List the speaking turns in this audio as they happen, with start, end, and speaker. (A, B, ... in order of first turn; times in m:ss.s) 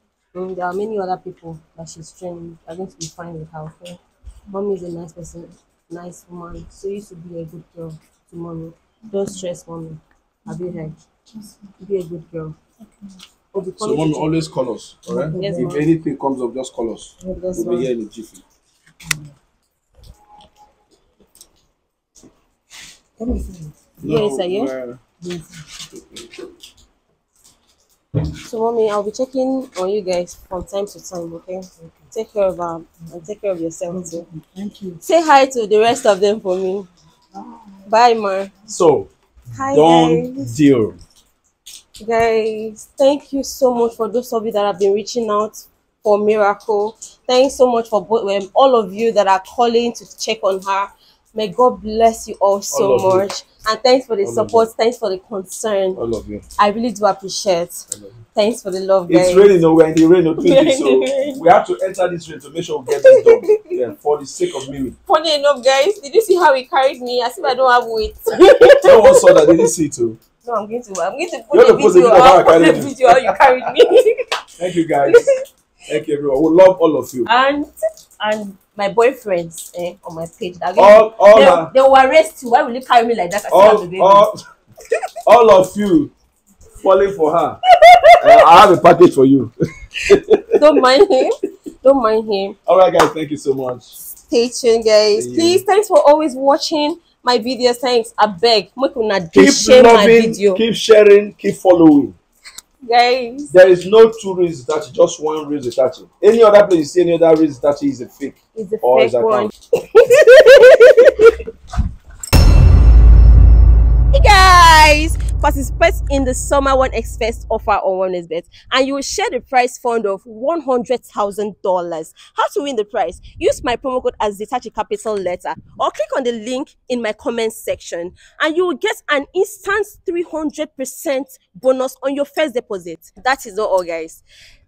0:00.3-0:11.0 A
0:11.8-0:12.6 A
0:13.5-0:14.5 A
0:13.8-0:18.4 B
0:15.1-0:15.9 C
0:15.3-0:15.9 A
0:17.2-0:17.9 A
0:19.0-0:19.3 C
0:23.2-0:23.8 C
0:24.0-0:25.0 B
0:24.0-0:24.7 A
0:25.2-0:25.8 C
0:28.4-0:34.2 A
0:31.8-0:32.1 C
0:33.9-0:35.0 C
0:35.0-0:36.9 A
0:37.3-0:37.9 C
0:37.8-0:38.5 A
0:38.7-0:39.1 B
0:39.5-0:40.5 A
0:39.7-0:41.0 B
0:42.0-0:56.0 A
0:52.7-0:53.3 B
0:54.2-0:54.7 B
0:55.9-0:56.4 B
0:56.6-0:59.6 A
0:57.9-0:58.2 B
0:59.1-1:05.0 B
1:00.4-1:01.4 A
1:02.9-1:03.8 A
1:05.0-1:09.7 A
1:08.8-1:10.2 B
1:10.4-1:14.2 A
1:11.5-1:13.7 B
1:14.6-1:15.3 B
1:15.0-1:15.4 A
1:15.9-1:17.3 B
1:17.2-1:24.3 A
1:20.7-1:21.7 B
1:23.5-1:24.4 B
1:25.2-1:26.1 B
1:26.8-1:27.6 B
1:27.8-1:28.4 A
1:28.2-1:30.8 B
1:30.5-1:32.6 A
1:32.6-1:33.9 B
1:34.2-1:40.6 A
1:35.2-1:35.6 B
1:39.3-1:42.2 B
1:42.8-1:43.5 A
1:43.5-1:49.5 B
1:48.5-1:51.4 A
1:54.1-2:14.2 A